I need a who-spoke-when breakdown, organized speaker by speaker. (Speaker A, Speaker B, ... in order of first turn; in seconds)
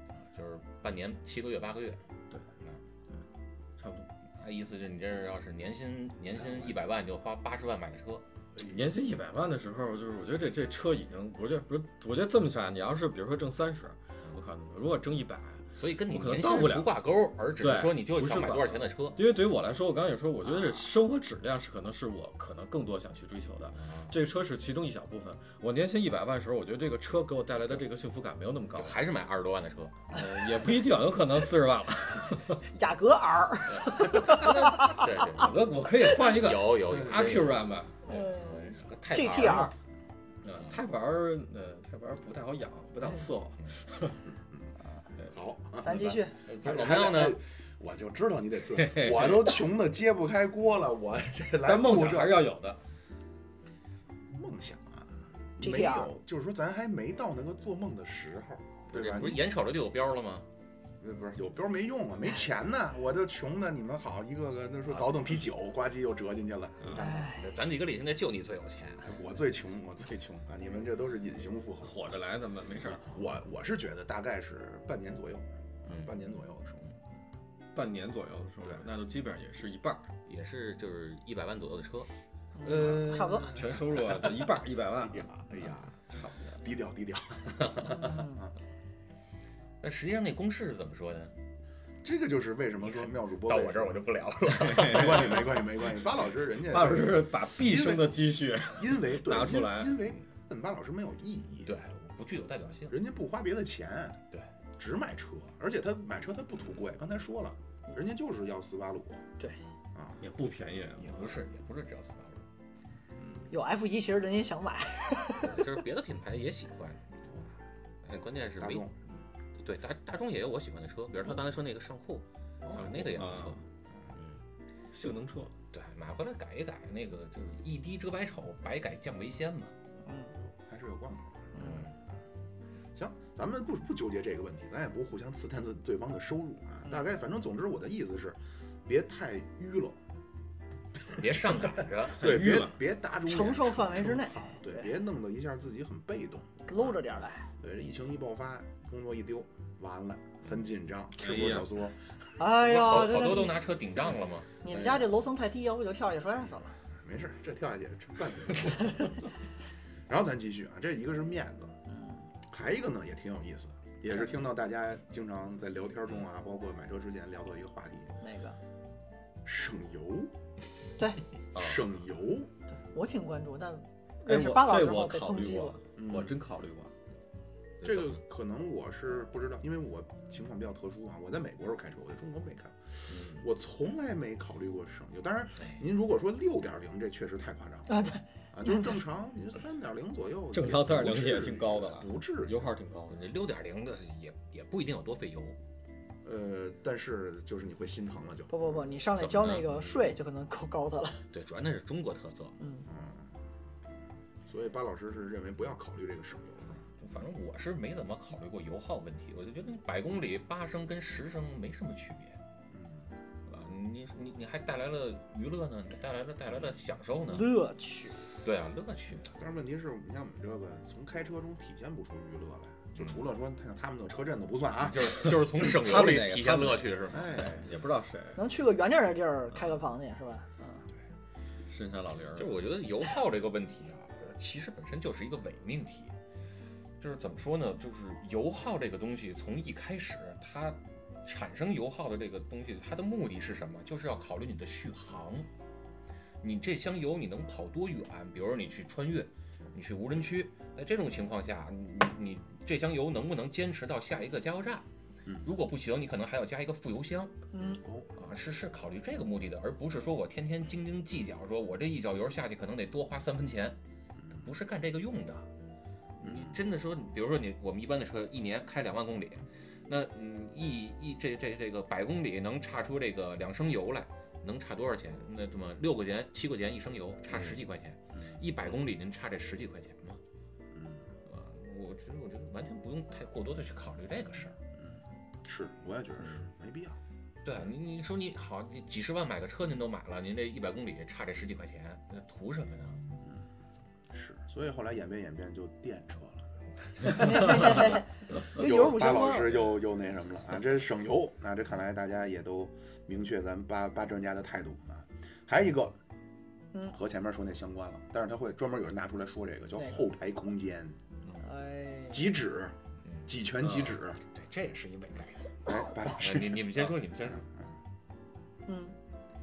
Speaker A: 0.3-2.0, 4.4-8.2, 15.8-19.2, 23.8-24.2, 28.8-30.2, 33.8-39.7, 46.0-47.4, 58.9-60.5, 66.9-69.1, 80.3-82.1, 89.8-91.3, 93.5-95.6, 101.7-103.0, 106.6-106.9, 111.0-112.5, 115.4-117.2, 118.0-118.9, 119.6-123.6, 125.7-129.8, 131.6-131.9, 141.1-142.3, 152.6-154.5, 177.8-178.2, 193.1-195.6, 199.2-199.7, 201.3-202.6, 207.0-212.4, 213.5-217.6, 218.4-219.3, 222.9-223.2, 224.8-227.5, 232.4-236.1, 237.0-245.5, 246.4-254.9, 255.4-257.3, 258.2-263.8, 264.4-265.5, 266.2-280.2, 281.3-284.6, 287.4-293.0, 296.8-297.6, 313.0-313.3, 314.3-317.5
Speaker B: 3.8-4.1, 8.6-17.0, 17.6-29.0, 30.1-32.7, 33.9-38.2, 40.4-44.2, 48.8-49.6, 51.6-52.8, 71.8-73.1, 77.7-80.1, 82.7-85.3, 94.5-95.4, 96.6-100.2, 110.2-111.4, 122.7-123.6, 124.9-125.5, 142.2-142.8, 151.2-151.7, 171.5-171.9, 174.3-176.9, 183.1-183.4, 190.5-193.2, 225.2-228.4, 231.7-232.6
Speaker C: 32.7-35.2, 38.1-39.7, 45.8-46.4, 55.6-56.1, 67.0-67.5, 82.6-83.5, 87.8-88.4, 113.5-115.6, 130.1-130.3, 131.6-131.9, 143.2-144.9, 146.7-147.5, 152.4-153.6, 154.6-156.8, 161.9-162.2, 168.2-168.6, 172.8-175.8, 187.9-188.9, 198.5-201.2, 202.6-202.9, 217.3-218.2, 228.4-230.9, 257.5-257.8, 297.1-299.6, 309.8-310.0, 311.4-312.3, 318.7-318.9
Speaker D: 36.9-37.5, 44.5-52.5, 54.3-59.4, 61.0-67.3, 69.0-72.1, 72.9-76.9, 82.6-84.3, 85.0-88.5, 92.0-94.0, 94.7-98.2, 98.7-101.7, 102.9-104.2, 104.8-109.2, 109.9-110.2, 113.2-113.5, 118.6-119.0, 122.6-122.9, 123.9-124.2, 130.4-131.8, 132.9-140.0, 141.0-147.0, 147.6-152.0, 154.7-155.1, 157.0-159.3, 160.1-161.8, 162.5-168.2, 169.4-170.3, 171.5-172.5, 176.0-176.4, 177.8-192.7, 196.2-198.7, 202.9-203.3, 204.5-206.8, 212.7-213.1, 219.3-225.2, 227.1-227.7, 257.8-258.1, 266.2-266.6, 278.1-278.4, 280.7-281.1, 284.8-287.0, 293.2-293.5, 294.1-296.5, 297.0-298.0, 298.5-306.0, 306.9-311.0, 312.1-314.2, 315.6-316.9